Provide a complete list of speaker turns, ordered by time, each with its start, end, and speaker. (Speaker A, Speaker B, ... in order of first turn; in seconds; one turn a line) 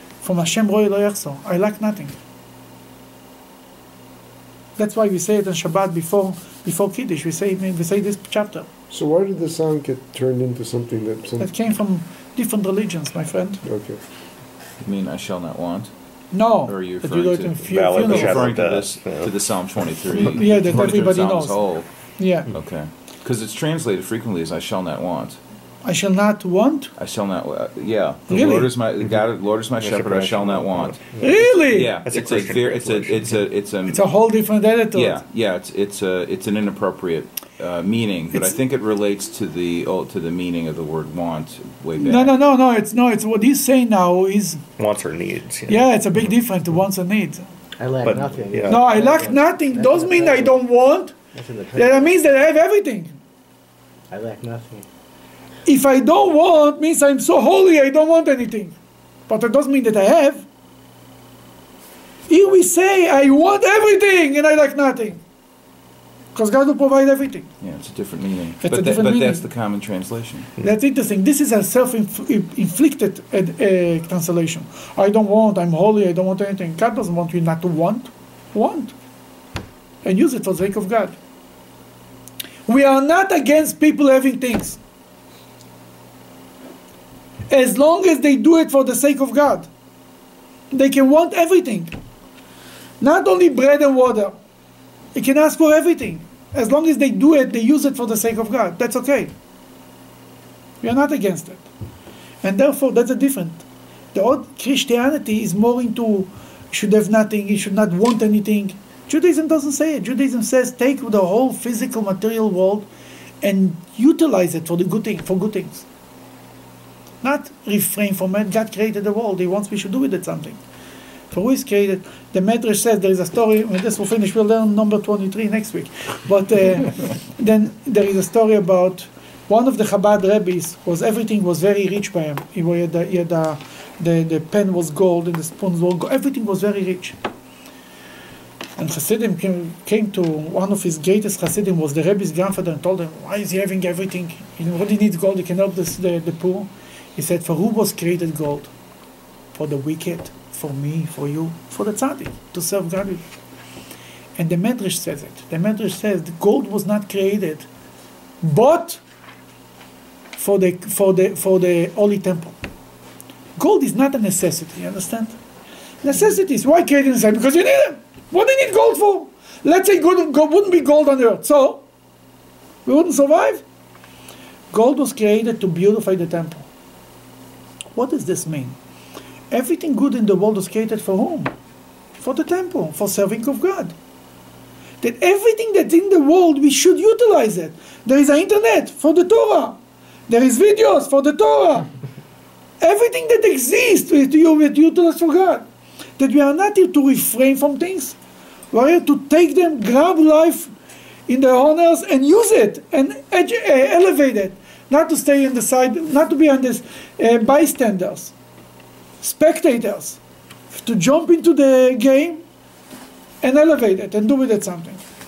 Speaker A: 0.2-2.2
Speaker A: 4.8-8.7
Speaker B: 8.9-11.5
Speaker A: 11.4-13.6
Speaker B: 13.6-14.0
Speaker C: 14.8-15.9
Speaker A: 16.3-18.5
Speaker C: 16.7-21.9
Speaker D: 17.7-19.4
Speaker A: 20.1-21.6
Speaker A: 22.2-22.5
Speaker C: 22.5-25.4
Speaker A: 25.8-26.9
Speaker C: 27.0-34.0
Speaker A: 28.3-28.7
Speaker D: 29.8-33.5
Speaker A: 31.2-31.9
Speaker A: 33.9-35.2
Speaker C: 34.9-42.4
Speaker A: 42.0-44.6
Speaker D: 44.8-45.9
Speaker A: 45.7-47.4
Speaker E: 47.8-50.6
Speaker D: 48.0-48.9
Speaker A: 48.7-51.1
Speaker E: 51.4-52.1
Speaker A: 51.8-53.1
Speaker E: 54.1-54.9
Speaker A: 55.7-58.8
Speaker A: 59.3-60.5
Speaker A: 62.3-65.2
Speaker A: 66.3-67.5
Speaker C: 67.6-70.5
Speaker A: 68.6-69.5
Speaker A: 70.6-78.9
Speaker A: 80.0-81.2
Speaker A: 82.7-84.8
Speaker A: 87.5-89.7
Speaker A: 90.7-91.9
Speaker A: 93.0-94.4
Speaker A: 95.2-99.3
Speaker A: 100.8-101.7
Speaker A: 102.4-112.9
Speaker A: 113.4-115.9
Speaker A: 117.2-120.6
Speaker A: 121.3-137.2
Speaker A: 138.8-148.7
Speaker A: 149.6-153.2
Speaker A: 154.4-157.7
Speaker A: 158.4-159.0
Speaker A: 160.4-162.6
Speaker A: 163.6-165.4
Speaker A: 166.0-171.8
Speaker A: 172.9-173.6
Speaker A: 174.7-176.7
Speaker A: 177.9-178.8
Speaker A: 179.5-181.5
Speaker A: 182.2-183.9
Speaker A: 185.0-189.8
Speaker A: 190.3-191.9
Speaker A: 192.8-195.7
Speaker A: 196.2-198.2
Speaker A: 198.7-200.7
Speaker A: 201.3-208.3
Speaker A: 209.2-210.2
Speaker A: 210.7-212.4
Speaker A: 213.4-215.0